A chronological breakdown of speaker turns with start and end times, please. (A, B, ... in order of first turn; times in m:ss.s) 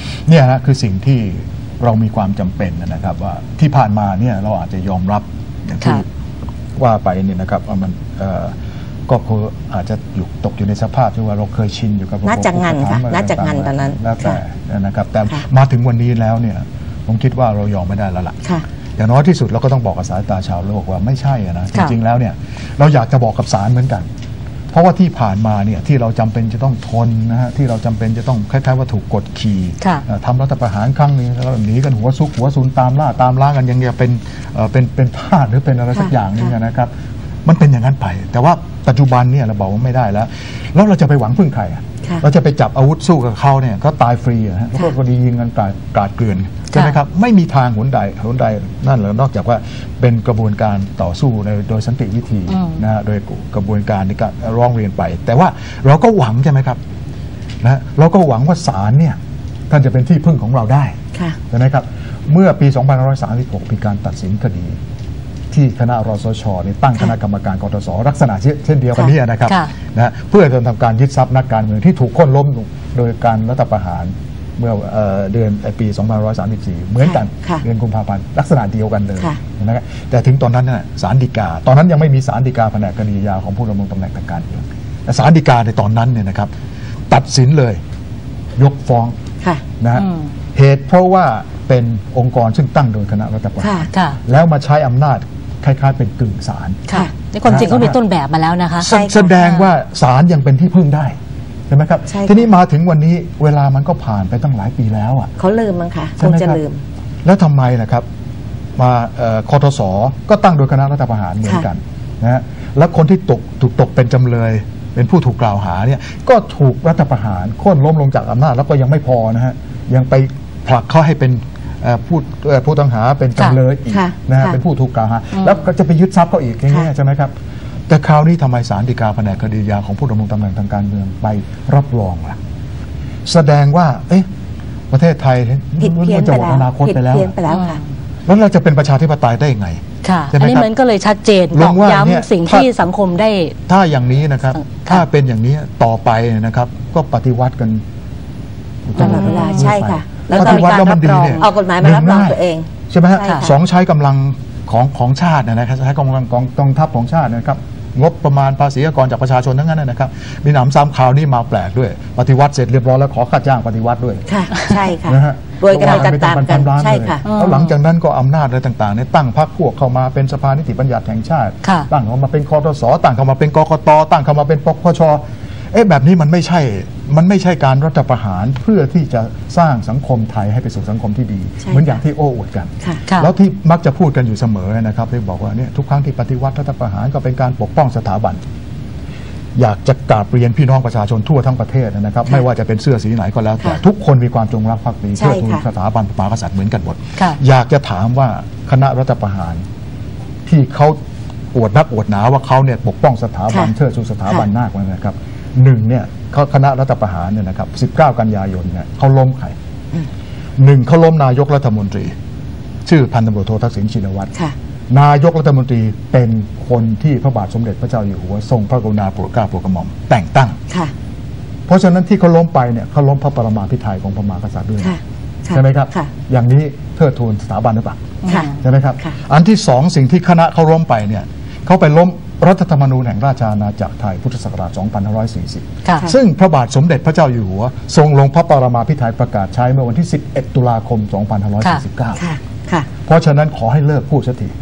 0:00.3-0:06.0 A
0:06.8-0:08.5 A
0:09.1-0:18.4 A
0:12.2-0:14.4 B
0:19.0-0:24.1 A
0:24.7-0:36.9 A
0:37.4-0:56.8 A
0:52.5-0:52.8 C
0:57.6-0:59.2 A
0:59.7-1:01.0 A
1:01.5-1:04.8 A
1:05.5-1:26.5 A
1:17.0-1:17.6 B
1:27.1-1:27.8 A
1:28.6-1:29.2 A
1:29.8-1:36.8 A
1:33.6-1:33.9 B
1:33.9-1:34.2 C
1:36.9-1:39.7 C
1:36.9-1:37.6 B
1:37.4-1:38.0 A
1:38.8-1:41.1 A
1:38.8-1:39.3 B
1:41.7-1:45.3 A
1:42.1-1:42.5 B
1:45.4-1:46.8 B
1:46.2-1:46.6 A
1:47.2-1:48.0 A
1:48.8-2:07.3 A
2:03.9-2:04.6 B
2:05.4-2:05.6 C
2:07.9-2:12.4 A
2:13.2-2:14.3 A
2:14.9-2:17.3 A
2:15.8-2:17.8 B
2:17.5-2:17.8 C
2:18.2-2:20.7 A
2:20.0-2:23.5 C
2:21.5-2:22.7 A
2:23.7-2:27.8 A
2:24.6-2:25.0 C
2:28.9-2:44.2 A
2:29.0-2:29.7 C
2:29.0-2:33.5 B
2:30.3-2:31.5 C
2:33.2-2:33.5 C
2:44.3-2:47.2 B
2:45.0-3:08.4 A
2:47.2-2:47.7 C
3:01.6-3:02.0 B
3:09.5-3:19.6 A
3:15.2-3:15.6 B
3:20.4-3:21.0 A
3:21.5-3:29.5 A
3:30.6-3:32.1 A
3:32.8-3:34.3 A
3:34.9-3:40.6 A
3:41.7-3:45.0 A
3:44.8-3:46.1 B
3:45.5-4:02.2 A
3:48.2-3:48.6 C
3:48.2-3:49.2 B
3:55.8-3:56.1 C
4:02.2-4:02.9 B
4:03.0-4:04.5 A